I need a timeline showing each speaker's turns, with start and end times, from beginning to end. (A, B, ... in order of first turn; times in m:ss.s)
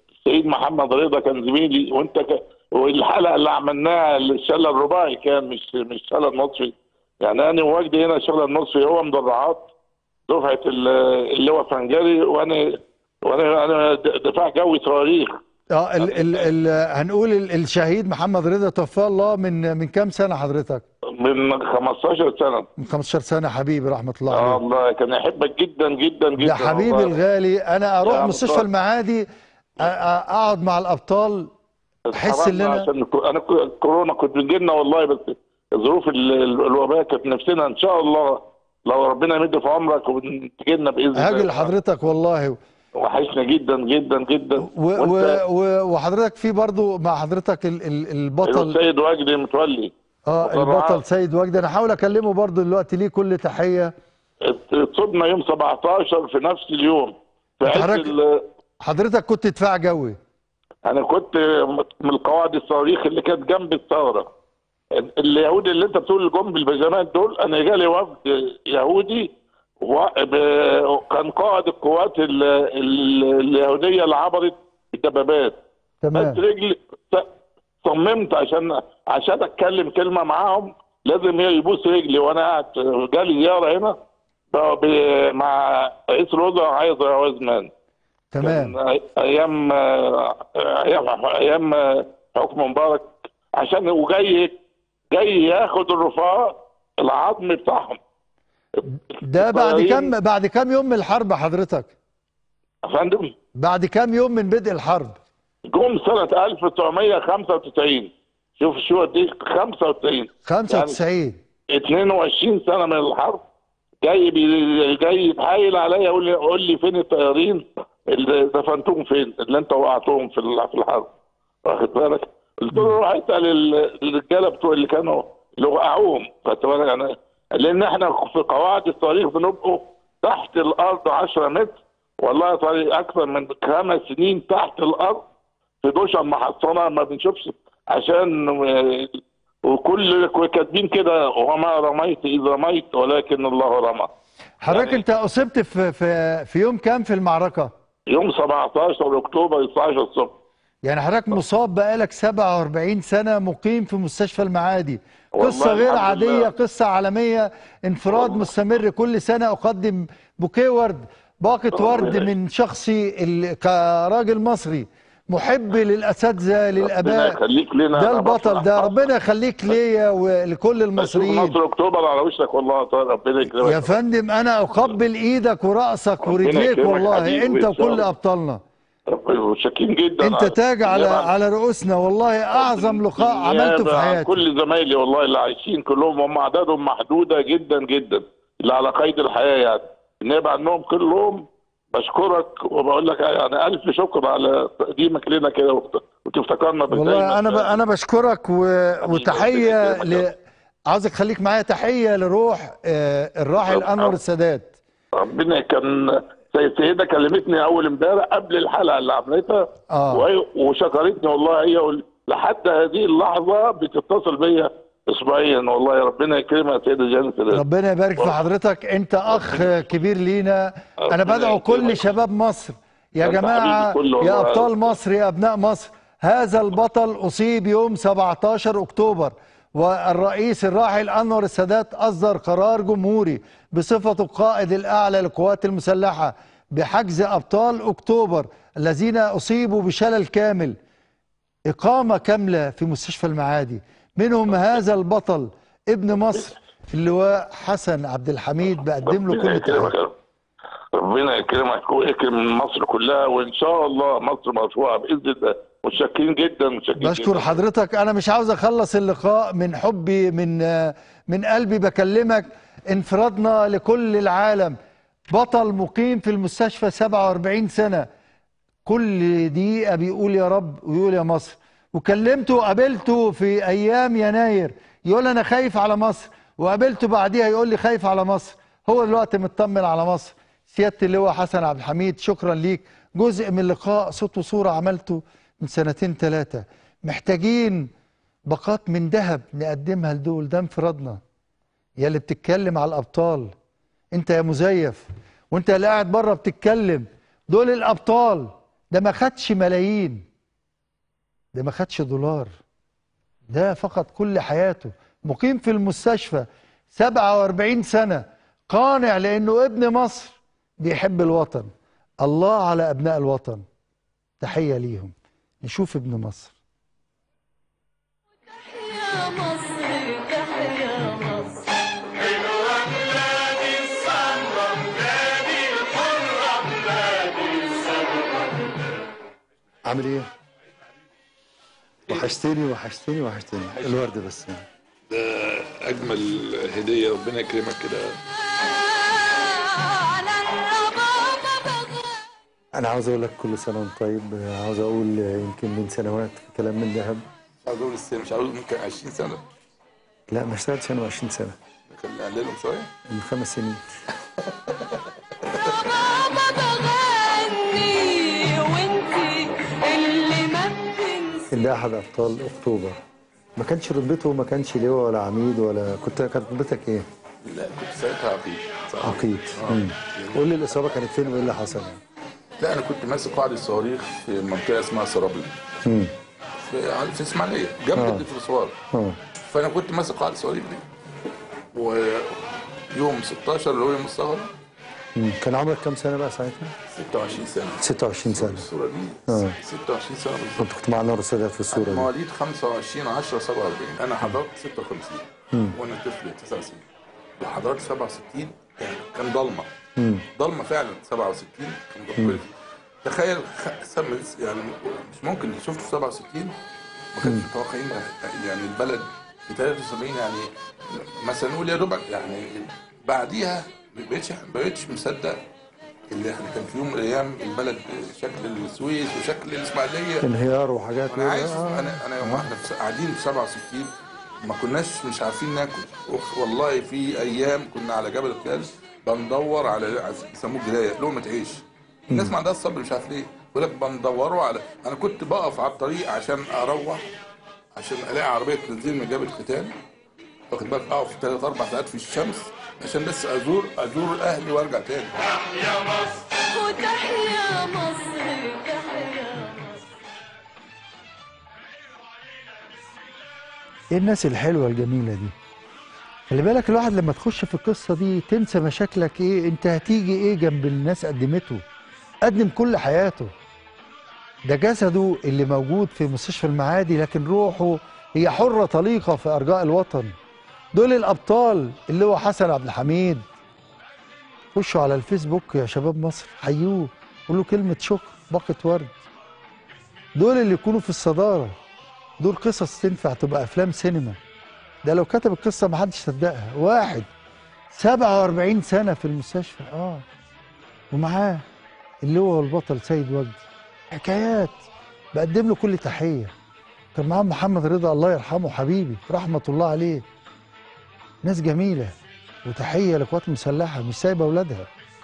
0:00.2-0:09.7 A
0:10.3-0:15.4 A
0:15.7-0:20.8 B
0:16.0-0:16.5 A
0:21.2-0:22.7 A
0:22.8-0:24.6 B
0:24.3-0:27.2 A
0:26.4-0:29.3 B
0:28.0-0:28.6 A
0:29.8-0:31.5 B
0:32.1-0:41.7 A
0:32.1-0:32.9 B
0:41.2-0:42.6 B
0:43.0-0:45.4 A
0:44.6-0:48.8 B
0:48.5-0:49.9 A
0:50.3-0:53.9 B
0:50.4-0:51.0 A
0:54.4-0:58.4 A
0:57.6-0:58.1 B
0:58.8-1:00.2 B
1:00.8-1:04.3 A
1:05.0-1:15.6 A
1:16.0-1:16.4 B
1:16.2-1:17.3 A
1:17.8-1:24.0 A
1:24.5-1:27.7 A
1:28.3-1:28.8 B
1:28.4-1:34.5 A
1:35.1-1:38.0 A
1:38.9-1:41.9 B
1:39.3-1:40.1 A
1:42.9-1:43.3 A
1:43.6-1:45.2 B
1:45.7-1:51.0 A
1:50.5-1:51.4 B
1:51.7-1:53.4 A
1:54.0-2:01.1 A
2:01.6-2:15.2 A
2:15.8-2:24.1 A
2:24.6-2:27.7 B
2:24.7-2:25.0 A
2:28.1-2:30.4 A
2:30.8-2:47.4 B
2:35.4-2:36.5 A
2:38.1-2:38.5 A
2:41.7-2:42.3 A
2:46.8-2:49.1 A
2:48.0-2:51.6 B
2:51.0-2:54.0 A
2:53.6-2:58.6 B
2:56.2-2:58.1 A
2:59.1-3:01.3 A
3:00.2-3:04.4 B
3:02.5-3:17.8 A
3:16.9-3:20.4 B
3:19.0-3:20.3 A
3:20.9-3:24.7 B
3:23.7-3:24.2 A
3:25.2-3:37.6 A
3:29.9-3:30.2 B
3:37.5-4:00.8 B
3:39.3-3:39.7 A
3:41.1-3:42.1 A
3:43.2-3:44.9 A
4:01.7-4:10.0 B
4:09.0-4:10.1 A
4:10.9-4:17.6 A
4:17.0-4:24.8 B
4:25.3-4:28.1 B
4:28.9-4:47.9 B
4:48.5-4:51.2 B
4:52.0-4:53.5 B
4:54.2-5:00.2 B
5:01.5-5:02.5 B
5:03.5-5:11.7 B
5:12.2-5:13.6 B
5:14.4-5:16.5 B
5:18.6-5:21.7 C
5:22.3-5:28.3 C
5:29.9-5:30.3 B
5:32.1-5:34.6 B
5:35.1-5:38.2 D
5:38.6-5:42.1 C
5:42.8-5:47.2 B
5:47.6-5:49.4 D
5:50.3-5:51.6 B
5:51.9-5:52.9 D
5:53.1-5:53.8 B
5:55.5-5:55.7 D
5:56.0-6:01.5 C
6:01.5-6:03.0 B
6:03.6-6:07.1 B
6:07.4-6:10.4 D
6:09.0-6:12.0 B
6:12.6-6:15.5 D
6:15.8-6:16.1 B
6:16.6-6:18.8 D
6:18.0-6:18.2 B
6:18.9-6:19.2 B
6:19.5-6:20.9 D
6:21.7-6:24.5 D
6:25.2-6:26.7 B
6:26.9-6:30.7 D
6:27.8-6:28.6 B
6:29.3-6:29.6 B
6:30.6-6:32.1 B
6:31.7-6:35.2 D
6:35.8-6:36.8 D
6:37.4-6:39.7 D
6:40.0-6:40.2 B
6:40.4-6:42.5 D
6:43.0-6:46.6 D
6:47.2-6:55.4 D
6:56.1-7:00.3 D
7:00.2-7:02.5 B
7:01.1-7:03.9 D
7:04.4-7:17.0 D
7:17.8-7:19.7 D
7:20.5-7:25.2 D
7:26.3-7:29.9 C
7:33.9-7:35.3 B
7:36.3-7:41.6 B
7:42.2-7:43.3 B
7:44.5-7:50.1 B
7:50.7-7:53.2 B
7:54.6-7:58.9 B
8:00.2-8:01.6 B
8:02.2-8:04.2 B
8:04.9-8:07.1 B
8:07.7-8:10.0 B
8:10.9-8:11.4 B
8:12.0-8:14.6 B
8:15.1-8:16.3 B
8:17.0-8:20.0 B
8:21.2-8:24.7 B